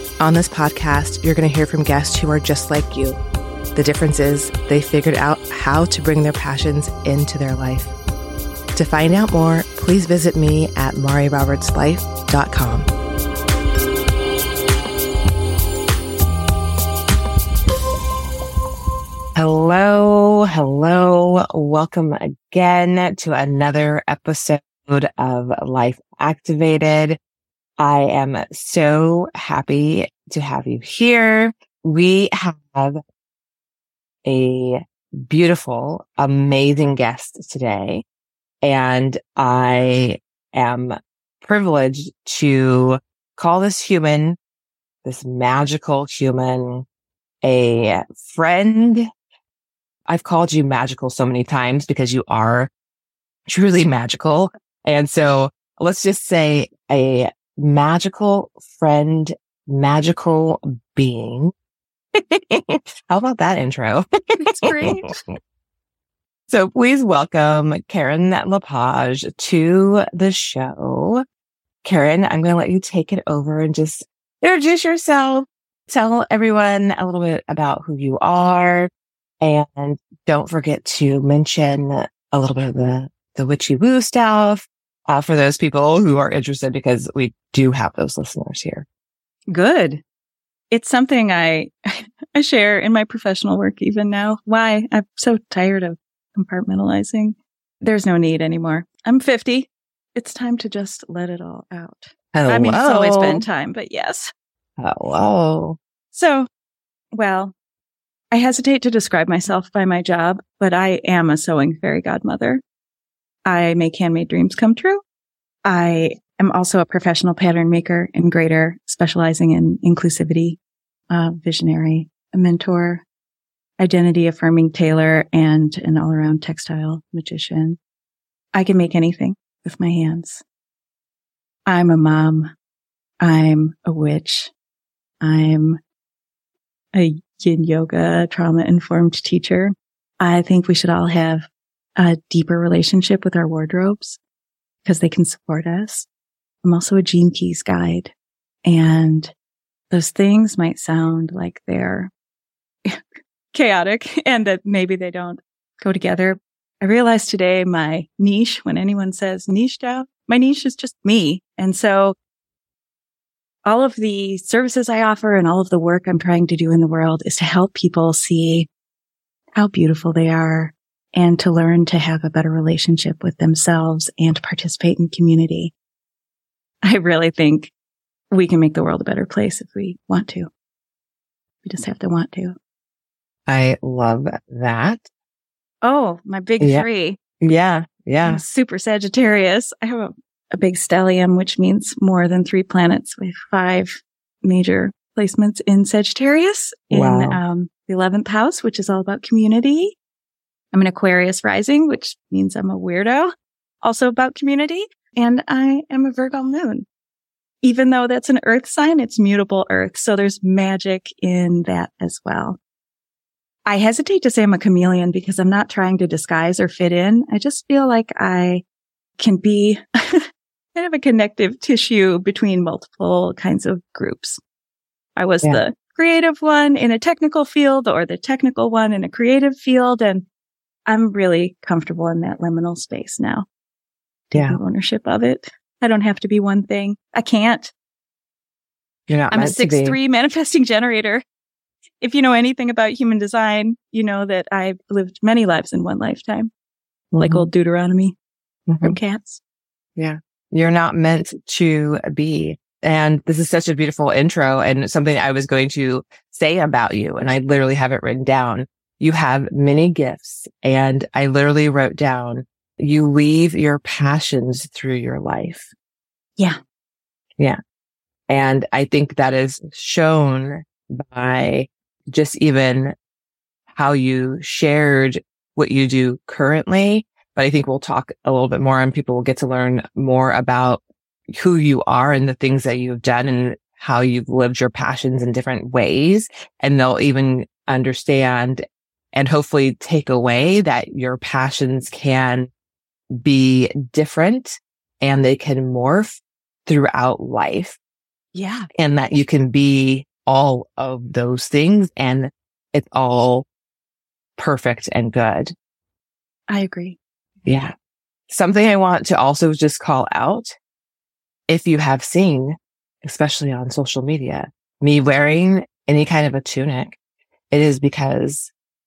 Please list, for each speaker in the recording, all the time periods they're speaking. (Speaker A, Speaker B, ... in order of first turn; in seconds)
Speaker A: 0.2-3.2, 3.7-7.9, 8.7-12.9, 19.4-27.2, 27.8-33.0, 34.2-38.0, 38.6-44.4, 45.0-46.9, 47.4-49.1, 50.1-52.7, 53.5-61.5, 62.1-64.0, 64.6-64.9, 66.5-71.2, 71.8-78.9, 79.4-88.8, 102.3-103.4, 104.8-105.8, 183.5-185.1, 186.6-186.8, 187.4-188.4, 196.9-197.4, 234.3-234.6, 239.1-240.0, 247.1-247.5, 248.7-249.0, 249.9-265.7, 268.3-272.9, 273.7-292.5, 293.1-297.8, 298.7-303.4, 304.4-305.5, 307.4-307.7, 308.3-310.6, 311.5-317.0, 317.5-318.5
Speaker B: 64.4-65.2, 89.5-90.0, 90.7-104.3, 106.1-106.5, 107.1-107.5, 108.3-112.6, 113.5-115.0, 115.7-120.6, 121.1-123.0, 123.8-127.8, 128.5-130.4, 131.7-132.5, 133.2-134.5, 135.2-135.8, 136.9-144.2, 144.8-146.1, 146.6-148.1, 148.6-149.3, 149.9-152.1, 153.5-162.1, 163.7-168.7, 169.6-175.7, 176.8-177.7, 178.3-180.5, 181.6-182.5, 185.8-187.2, 188.2-199.9, 200.7-206.8, 207.6-212.6, 213.7-218.6, 219.2-224.4, 225.2-230.2, 230.9-233.4, 234.3-237.7, 239.3-241.2, 242.0-246.5, 247.2-248.2, 248.8-249.4, 298.3-298.7, 306.5-307.0